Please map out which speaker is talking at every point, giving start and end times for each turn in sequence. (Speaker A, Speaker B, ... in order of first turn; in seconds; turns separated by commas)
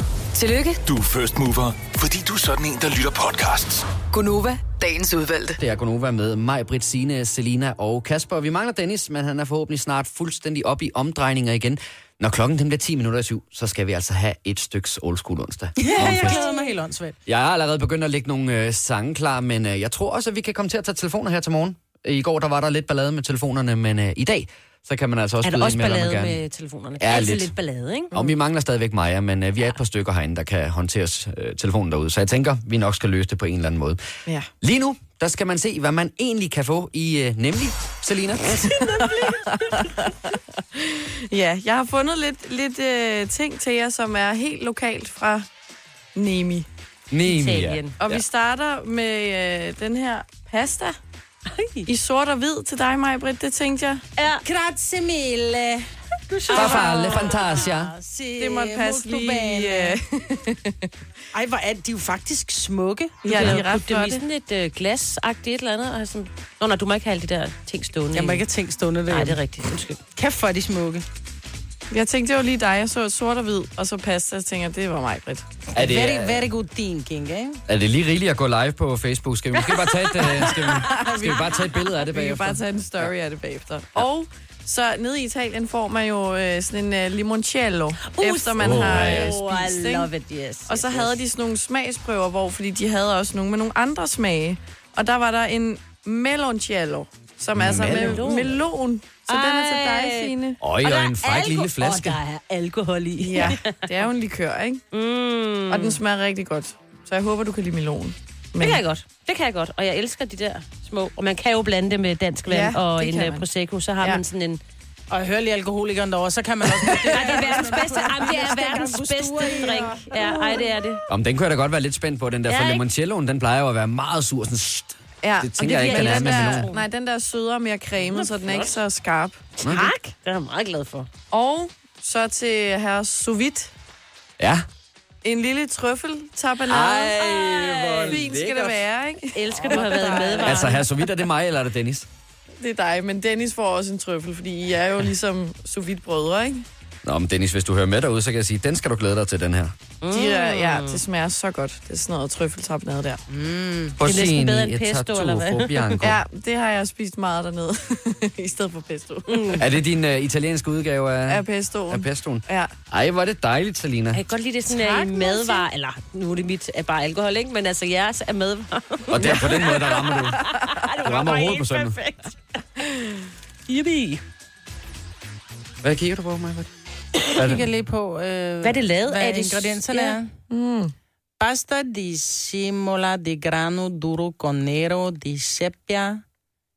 Speaker A: 0.3-0.8, Speaker B: 0.8-3.9, Speaker A: 4.1-5.6, Speaker C: 5.6-16.4, Speaker D: 15.8-17.2, Speaker E: 15.8-16.7, Speaker C: 17.3-26.4, Speaker E: 25.4-28.1, Speaker C: 27.0-27.5, Speaker C: 28.1-34.0, Speaker C: 34.6-38.8, Speaker E: 38.8-39.9, Speaker F: 38.8-45.5, Speaker F: 46.1-46.7, Speaker C: 47.1-48.2, Speaker E: 47.2-48.0, Speaker F: 48.0-51.0, Speaker E: 51.5-51.9, Speaker F: 51.9-54.0, Speaker E: 54.2-54.5, Speaker D: 54.4-60.0, Speaker E: 56.5-57.5, Speaker C: 56.5-57.9, Speaker F: 58.4-60.9, Speaker D: 61.3-63.6, Speaker F: 63.2-64.2, Speaker E: 63.3-68.4, Speaker D: 68.1-69.4, Speaker E: 69.1-70.0, Speaker D: 70.2-71.0, Speaker F: 71.9-75.5, Speaker D: 75.7-77.6, Speaker C: 75.8-76.5, Speaker C: 77.7-83.1, Speaker F: 80.3-90.1, Speaker E: 88.0-91.2, Speaker C: 88.6-89.3, Speaker F: 90.7-100.6, Speaker C: 97.5-98.5, Speaker E: 97.8-98.6, Speaker E: 99.3-103.8, Speaker C: 100.6-102.2, Speaker F: 103.2-104.8, Speaker E: 104.9-106.0, Speaker F: 105.7-108.8, Speaker E: 108.6-114.6, Speaker F: 112.5-113.5, Speaker D: 115.1-120.1, Speaker F: 116.8-117.5, Speaker E: 117.1-121.0, Speaker F: 120.1-120.6, Speaker C: 121.1-126.7, Speaker E: 122.5-122.8, Speaker F: 125.2-129.4, Speaker E: 125.6-126.8, Speaker E: 128.1-128.8, Speaker E: 129.6-131.1, Speaker C: 129.6-129.9, Speaker F: 131.3-133.7, Speaker C: 134.4-134.7, Speaker F: 135.2-137.2, Speaker C: 136.7-138.8, Speaker E: 137.2-138.2, Speaker F: 138.1-140.8, Speaker E: 139.3-140.8, Speaker C: 140.4-142.1, Speaker F: 142.6-146.7, Speaker C: 147.0-149.7, Speaker E: 150.0-151.0, Speaker F: 150.1-153.2, Speaker D: 153.3-154.0, Speaker C: 154.0-156.2, Speaker E: 154.0-155.9, Speaker F: 156.0-159.7, Speaker E: 159.3-159.7, Speaker C: 159.6-164.2, Speaker F: 161.3-162.7, Speaker E: 164.1-172.6, Speaker F: 164.7-165.6, Speaker C: 169.1-170.5, Speaker C: 171.0-172.0, Speaker E: 173.7-174.2, Speaker C: 175.8-176.7, Speaker D: 177.3-180.3, Speaker C: 177.4-177.6, Speaker E: 178.6-180.2, Speaker F: 180.5-180.9, Speaker D: 181.4-186.2